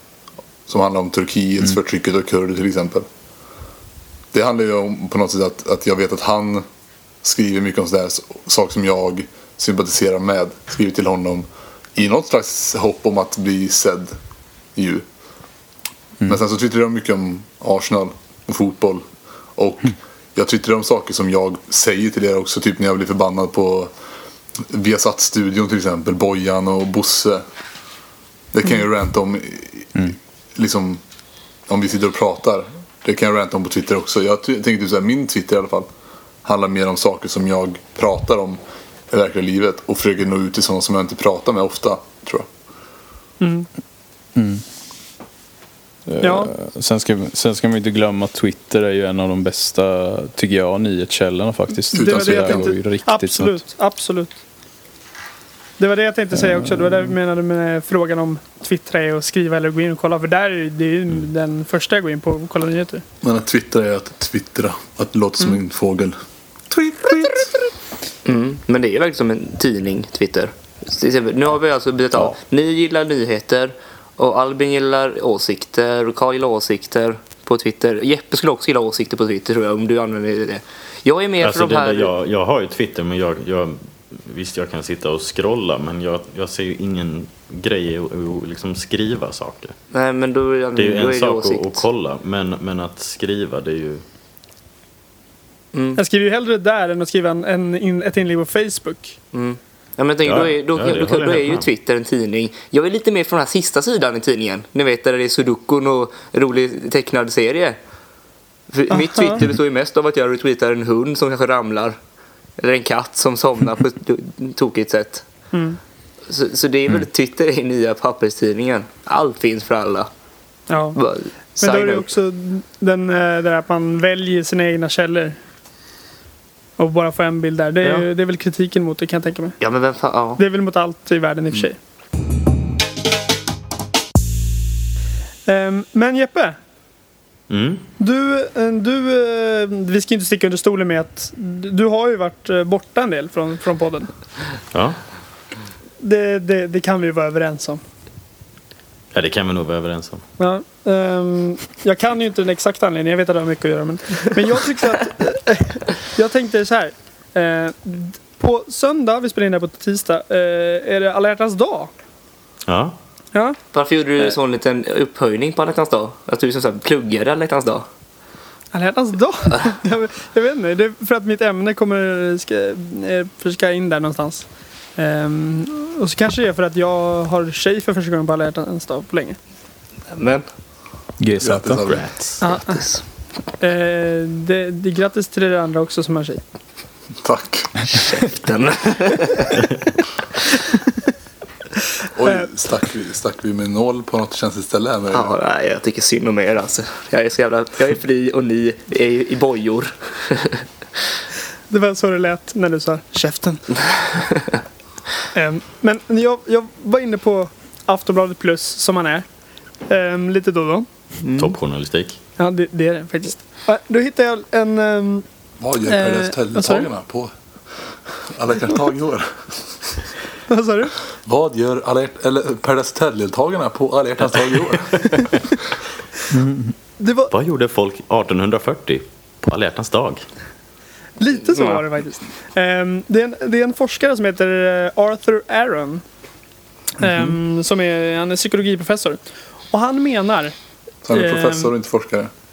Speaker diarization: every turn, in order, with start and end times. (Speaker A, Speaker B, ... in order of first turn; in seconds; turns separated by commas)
Speaker A: 0.7-3.1, Speaker A: 4.3-6.6, Speaker A: 7.2-14.2, Speaker A: 14.7-15.0, Speaker A: 16.2-19.0, Speaker A: 19.6-23.9, Speaker A: 24.6-27.4, Speaker A: 28.5-31.0, Speaker A: 31.7-35.9, Speaker A: 36.4-42.5, Speaker B: 43.4-43.7, Speaker C: 44.4-44.6, Speaker C: 46.1-53.6, Speaker B: 46.2-46.5, Speaker A: 51.9-52.7, Speaker B: 51.9-54.4, Speaker B: 55.8-63.0, Speaker C: 56.4-57.0, Speaker A: 63.2-66.2, Speaker A: 66.7-67.4, Speaker D: 68.2-82.1, Speaker E: 81.4-89.7, Speaker D: 89.9-91.8, Speaker E: 90.8-94.0, Speaker D: 95.7-96.0, Speaker B: 96.0-99.2, Speaker D: 99.3-107.8, Speaker E: 100.2-101.6, Speaker D: 108.7-112.0, Speaker B: 108.9-109.4, Speaker D: 112.6-115.2, Speaker B: 115.5-115.8, Speaker D: 116.3-120.1, Speaker B: 120.7-121.0, Speaker D: 120.9-122.1, Speaker B: 121.6-125.4, Speaker B: 126.8-129.6, Speaker D: 129.6-130.4, Speaker B: 130.4-131.8, Speaker B: 135.5-136.6, Speaker E: 137.5-137.8, Speaker B: 138.0-144.1, Speaker E: 144.7-145.0, Speaker B: 146.0-147.8, Speaker E: 149.1-150.2, Speaker B: 150.4-161.9, Speaker E: 162.7-162.9, Speaker D: 163.7-167.8, Speaker B: 168.7-174.4, Speaker B: 175.0-179.4, Speaker D: 180.1-180.4, Speaker C: 181.2-181.9, Speaker A: 181.4-182.0, Speaker E: 181.8-182.4, Speaker B: 182.4-182.8, Speaker D: 182.7-183.0, Speaker B: 183.6-186.4, Speaker A: 187.2-187.7, Speaker D: 187.9-189.6, Speaker A: 192.1-195.3, Speaker D: 195.1-200.6, Speaker B: 201.7-204.1, Speaker B: 205.3-209.2, Speaker B: 209.9-210.9, Speaker D: 211.2-211.5, Speaker E: 211.4-212.2, Speaker B: 212.4-215.2, Speaker A: 215.6-217.3, Speaker B: 215.9-216.9, Speaker A: 218.2-219.5, Speaker B: 220.5-220.9, Speaker A: 221.2-225.2, Speaker C: 226.3-226.7, Speaker B: 227.0-227.3, Speaker E: 227.3-230.2, Speaker B: 231.2-236.0, Speaker D: 231.5-231.8, Speaker B: 237.0-239.2, Speaker B: 239.7-240.5, Speaker A: 241.0-242.3, Speaker B: 241.1-241.7